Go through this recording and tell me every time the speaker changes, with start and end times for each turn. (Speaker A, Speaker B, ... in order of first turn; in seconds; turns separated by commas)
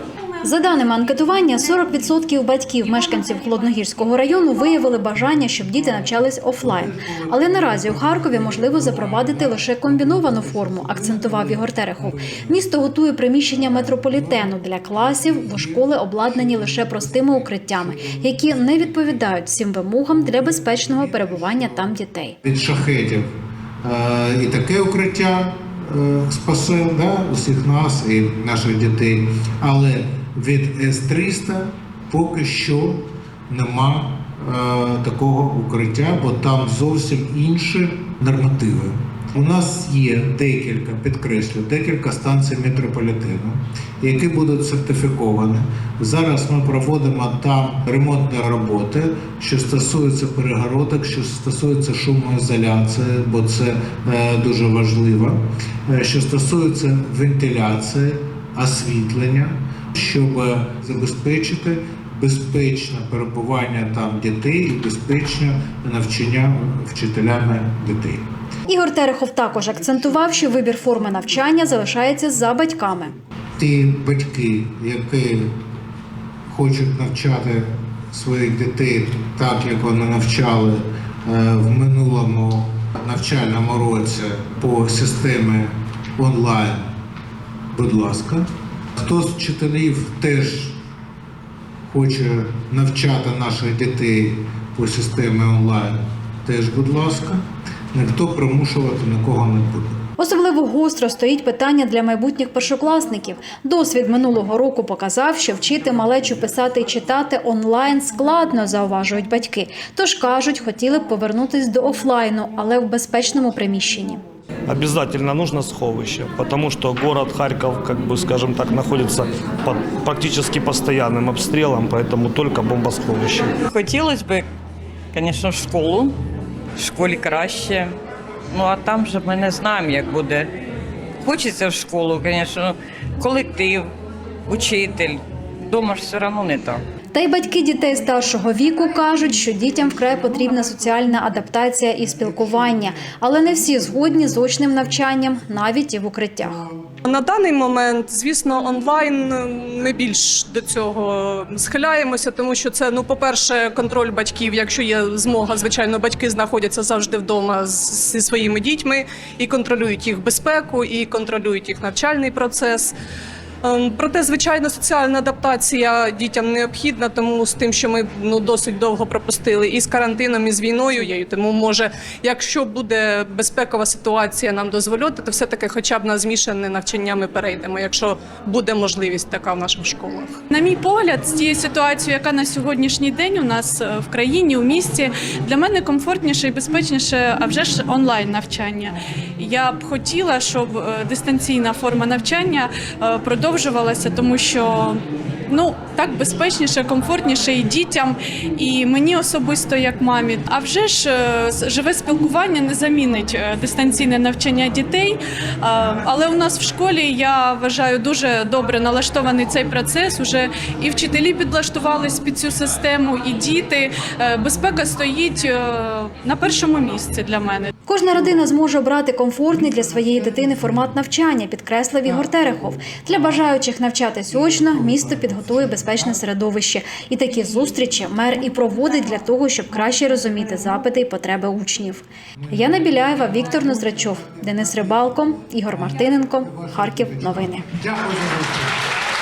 Speaker A: 0.4-22.4, Speaker B: 22.4-23.3, Speaker B: 23.8-68.2, Speaker A: 68.7-73.1, Speaker B: 73.6-75.6, Speaker B: 76.5-86.9, Speaker B: 87.7-90.8, Speaker B: 91.9-97.4, Speaker B: 97.9-100.0, Speaker A: 100.2-114.2, Speaker C: 114.7-123.5, Speaker D: 123.7-124.5, Speaker D: 125.1-126.2, Speaker D: 126.8-127.9, Speaker D: 128.5-130.5, Speaker D: 131.2-133.9, Speaker D: 134.4-136.8, Speaker A: 137.1-146.7, Speaker E: 147.0-162.9, Speaker E: 163.6-180.4, Speaker F: 180.5-195.0, Speaker F: 195.5-217.7, Speaker A: 217.9-237.7, Speaker B: 237.7-238.7